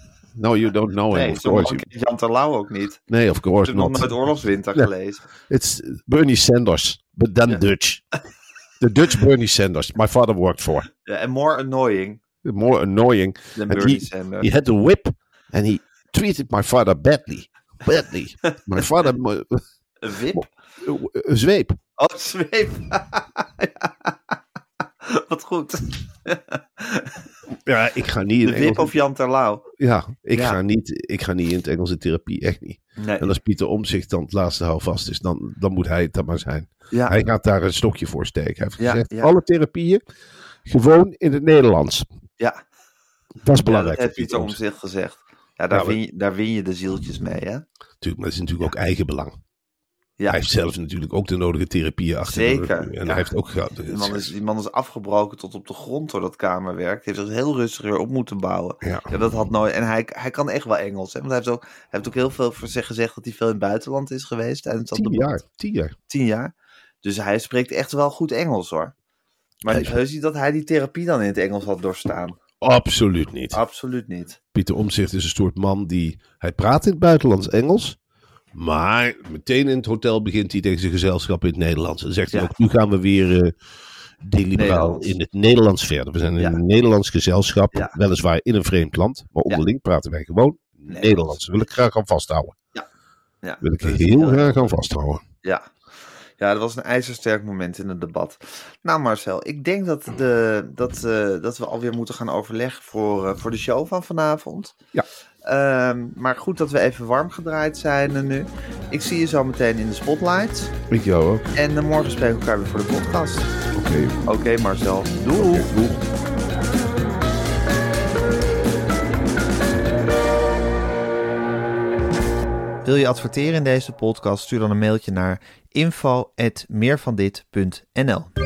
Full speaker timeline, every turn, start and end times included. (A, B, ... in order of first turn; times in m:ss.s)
0:00.3-0:01.8 A
0:01.1-0:03.0 B
0:03.1-0:04.1 A
0:03.6-0:05.2 B
0:05.5-0:08.0 A
0:08.8-0:10.9 A
0:11.0-0:12.2 B
0:12.4-0:19.6 A
0:13.6-0:14.5 B
0:18.5-0:18.8 B
0:20.0-0:20.5 B
0:20.3-0:21.8 A
0:22.0-0:24.3 B
0:25.0-0:27.2 B
0:27.5-0:28.9 A
0:28.4-0:29.7 B
0:29.8-0:40.0 A
0:33.0-0:33.3 B
0:38.8-0:39.3 B
0:40.6-0:42.1 A
0:43.4-0:44.6 A
0:43.6-0:47.6 B
0:45.7-0:46.0 A
0:48.0-0:49.4 A
0:50.3-0:54.3 A
0:52.2-0:53.3 B
0:53.8-1:05.3 B
0:58.8-0:59.1 A
1:04.9-1:05.9 A
1:06.1-1:06.5 B
1:07.0-1:08.9 B
1:09.6-1:12.4 B
1:09.7-1:10.0 A
1:12.6-1:13.6 A
1:13.5-1:14.4 B
1:14.5-1:18.0 A
1:18.5-1:23.5 A
1:24.2-1:32.5 A
1:24.6-1:25.1 B
1:30.9-1:31.3 B
1:33.4-1:34.7 B
1:33.6-1:35.2 A
1:35.4-1:35.7 B
1:36.4-1:44.7 B
1:45.4-1:50.7 B
1:50.9-1:51.5 A
1:51.5-1:53.5 B
1:53.7-1:54.3 A
1:54.2-1:55.7 B
1:55.3-1:56.0 A
2:02.8-2:08.3 B